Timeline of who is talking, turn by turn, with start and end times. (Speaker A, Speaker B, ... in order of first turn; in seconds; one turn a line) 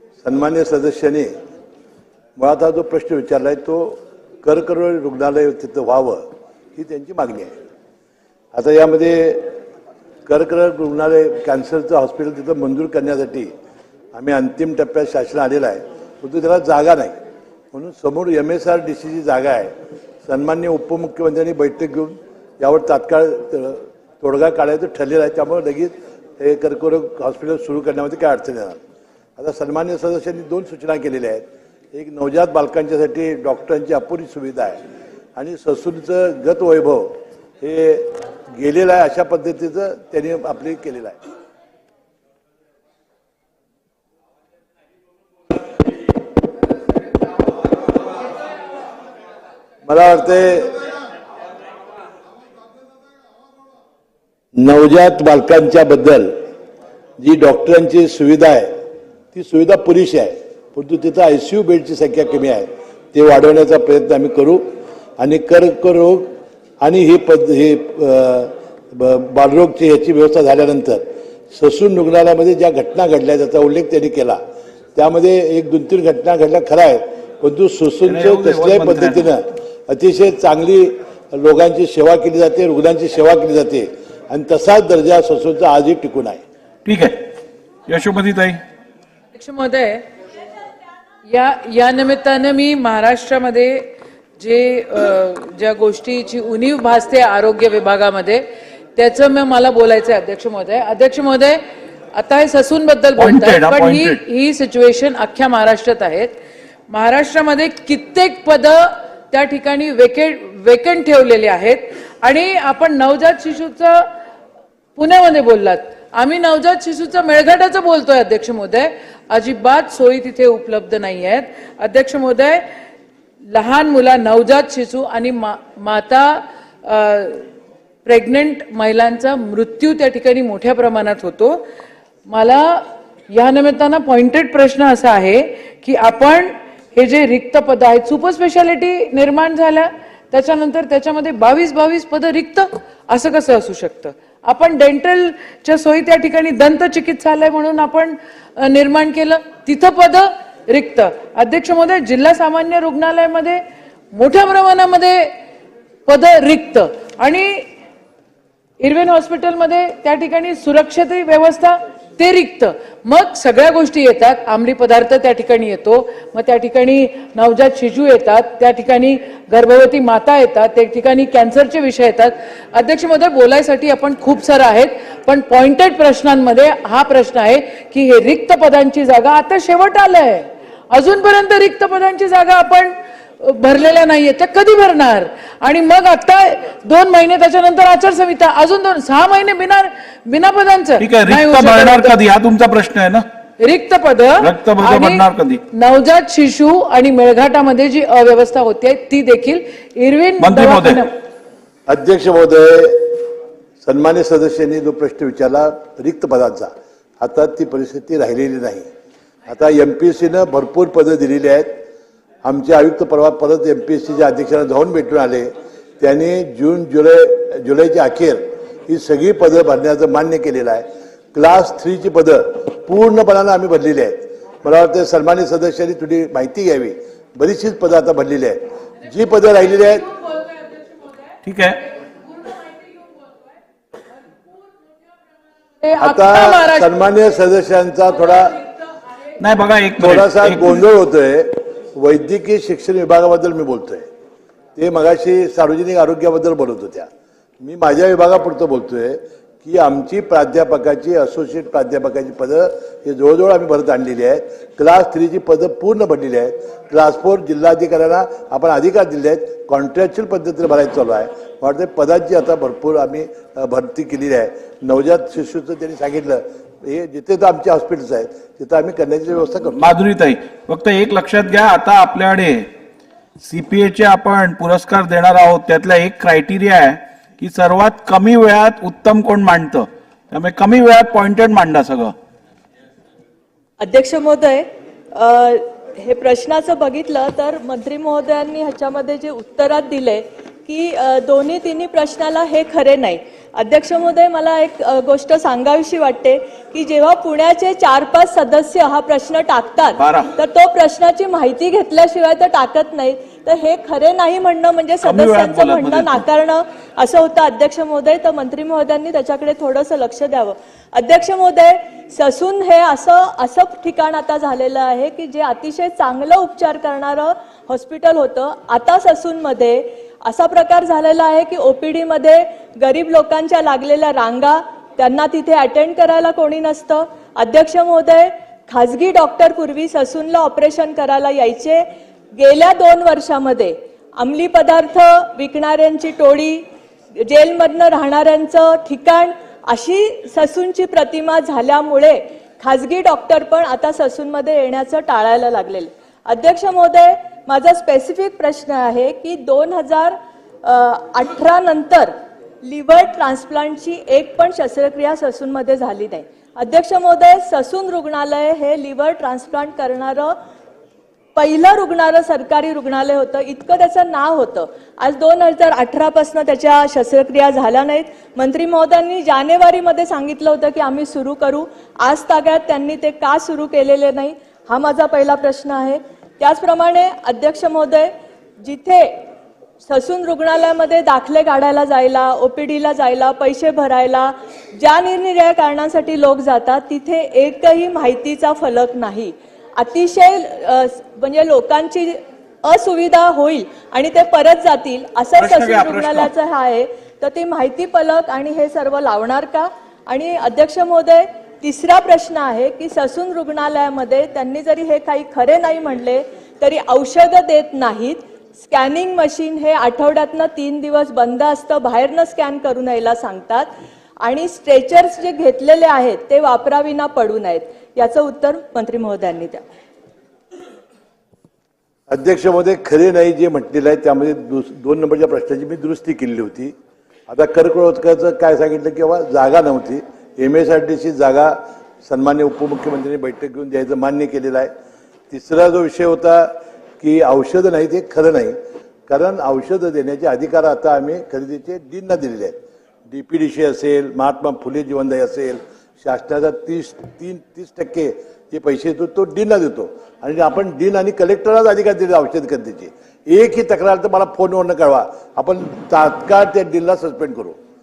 Speaker A: 0.2-1.3
Speaker A: 2.4-7.5
Speaker A: 8.5-9.6
Speaker A: 10.2-13.5
Speaker A: 14.1-17.2
Speaker A: 17.7-19.7
Speaker A: 20.2-28.8
Speaker A: 29.4-34.8
Speaker A: 35.4-41.2
Speaker A: 49.9-50.8
Speaker A: 54.5-56.4
Speaker A: 57.2-58.8
Speaker A: 59.3-74.4
Speaker A: 74.9-86.4
Speaker B: 78.0-79.3
Speaker B: 86.8-87.2
Speaker B: 87.9-88.6
Speaker C: 89.3-90.0
Speaker C: 91.3-101.6
Speaker C: 102.1-106.4
Speaker B: 103.2-104.2
Speaker C: 106.9-114.1
Speaker C: 115.0-122.7
Speaker C: 123.5-127.4
Speaker C: 128.0-131.7
Speaker C: 132.3-155.3
Speaker C: 156.1-157.7
Speaker C: 158.8-192.2
Speaker B: 191.0-193.2
Speaker C: 193.6-201.1
Speaker B: 194.4-195.6
Speaker B: 200.4-201.0
Speaker A: 201.9-203.3
Speaker A: 203.8-208.9
Speaker A: 209.5-211.8
Speaker A: 212.4-230.1
Speaker B: 231.4-231.8
Speaker C: 235.8-236.9
Speaker A: 236.0-238.6
Speaker B: 239.4-240.8
Speaker A: 240.0-244.1
Speaker A: 244.8-247.1
Speaker A: 247.6-269.8
Speaker B: 269.7-272.7
Speaker B: 273.4-282.1
Speaker D: 283.8-360.4
Speaker B: 299.9-300.3
Speaker B: 305.0-306.2
Speaker D: 361.4-379.2
Speaker D: 379.8-419.6
Speaker B: 395.4-396.3
Speaker A: 422.1-426.7
Speaker A: 427.3-434.7
Speaker A: 435.3-457.6